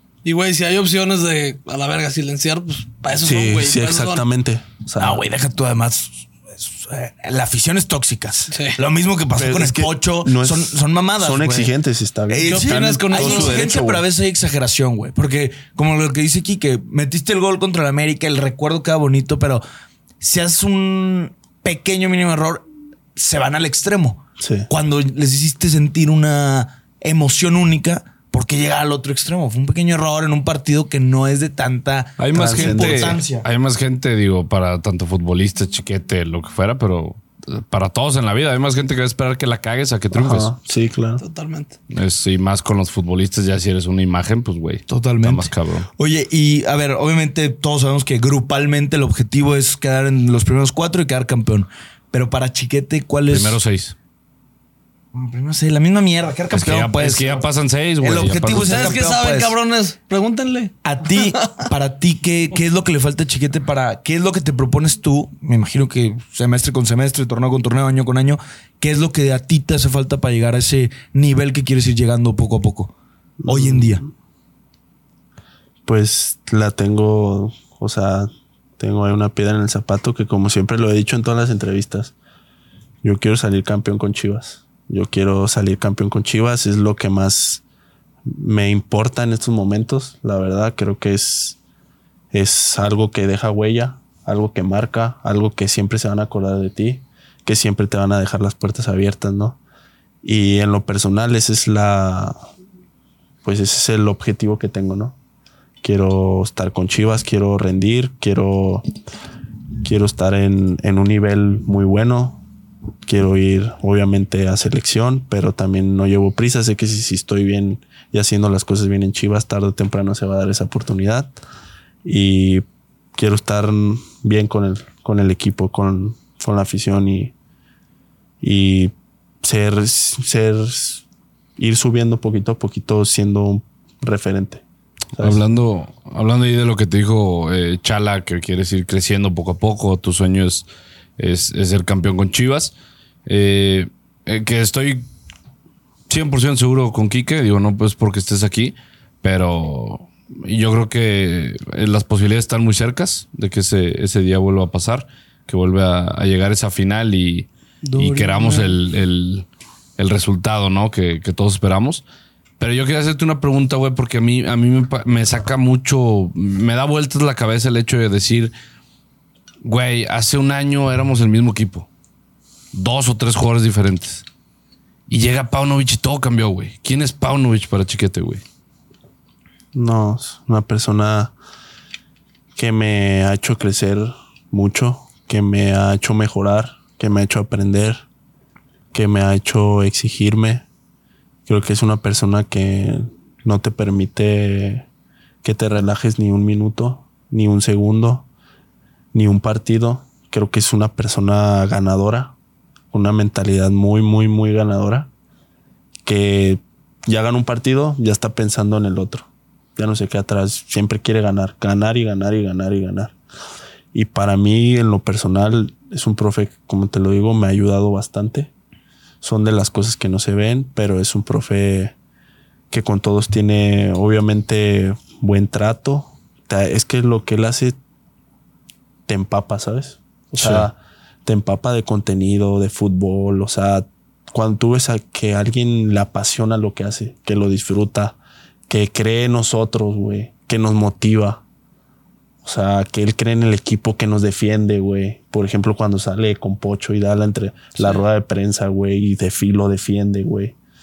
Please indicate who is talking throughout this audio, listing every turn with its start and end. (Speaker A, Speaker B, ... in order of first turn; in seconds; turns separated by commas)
Speaker A: 0.2-4.2, Speaker B: 3.1-5.2, Speaker C: 5.0-11.7, Speaker A: 8.5-8.8, Speaker B: 9.3-14.0, Speaker C: 12.3-19.6, Speaker A: 12.5-13.7, Speaker C: 20.2-33.5, Speaker B: 24.4-24.7, Speaker D: 32.2-40.5, Speaker B: 32.3-33.2, Speaker B: 40.1-41.2, Speaker A: 41.2-41.8, Speaker D: 41.9-45.9, Speaker C: 44.9-53.6, Speaker D: 53.3-53.9, Speaker C: 55.1-57.5, Speaker D: 56.5-59.0, Speaker C: 58.0-59.5, Speaker A: 58.5-61.6, Speaker C: 60.8-72.9, Speaker B: 73.4-74.1, Speaker C: 73.5-74.0, Speaker B: 75.9-82.1, Speaker B: 83.0-87.6, Speaker B: 88.3-91.6, Speaker B: 92.3-99.6, Speaker B: 100.2-102.4, Speaker B: 103.4-105.2, Speaker B: 105.8-108.8, Speaker B: 109.8-112.4, Speaker B: 113.0-121.3, Speaker B: 122.0-127.3, Speaker B: 128.4-131.0, Speaker B: 131.6-134.6, Speaker B: 135.2-135.4, Speaker D: 135.2-142.7, Speaker D: 143.3-145.1, Speaker D: 146.1-159.5, Speaker B: 157.9-158.8, Speaker D: 160.0-162.0, Speaker D: 162.6-168.5, Speaker D: 169.6-171.9, Speaker D: 172.7-174.2, Speaker D: 175.1-178.4, Speaker B: 179.7-181.3, Speaker B: 182.6-188.0, Speaker B: 188.9-190.7, Speaker B: 191.5-194.9, Speaker B: 195.4-198.3, Speaker B: 199.1-202.3, Speaker B: 202.9-205.1, Speaker B: 206.1-213.2, Speaker B: 213.9-218.5, Speaker B: 219.2-221.9, Speaker B: 222.7-227.8, Speaker B: 229.1-238.2, Speaker D: 230.4-230.7, Speaker B: 238.7-241.4, Speaker B: 242.4-250.6